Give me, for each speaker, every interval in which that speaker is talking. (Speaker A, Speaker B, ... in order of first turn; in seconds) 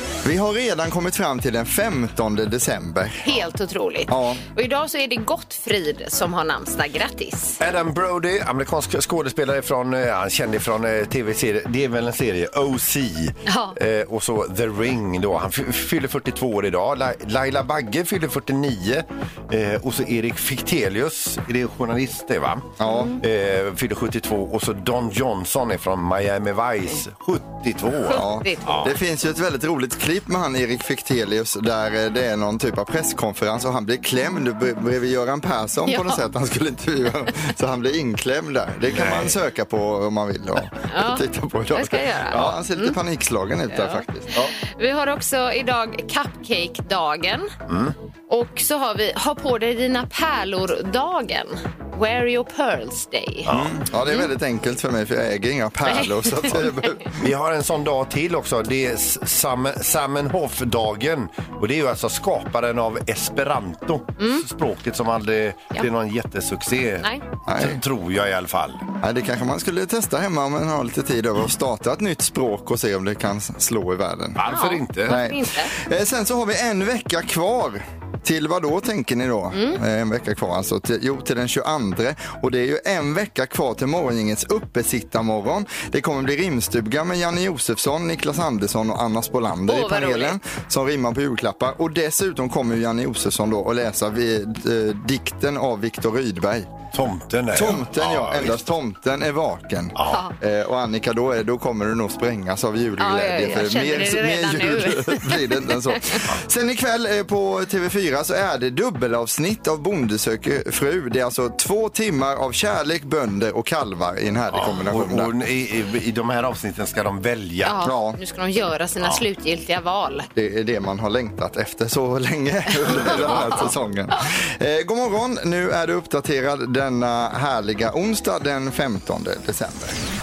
Speaker A: 0.2-3.2, 4.1-4.4, 22.8-23.1, 28.1-44.5, 53.5-57.2, 67.5-67.8, 69.0-74.4, 75.1-96.8, 97.5-115.3, 117.8-118.2, 120.3-130.0
Speaker B: 3.2-7.6, 13.4-13.8, 22.9-23.2, 28.0-28.9, 35.9-36.2, 40.9-43.0, 43.7-47.5, 48.3-53.5, 55.9-56.7, 64.2-64.5, 74.5-75.7, 79.5-79.8, 89.7-90.4, 100.0-100.3, 103.0-106.2, 117.6-120.3, 122.8-124.3
Speaker C: 7.6-22.7, 23.2-28.9, 38.9-39.4, 47.7-47.9, 53.4-53.7, 57.2-68.9, 74.3-75.2, 96.9-98.6, 100.0-100.2, 114.5-117.9, 119.0-119.2, 123.0-123.4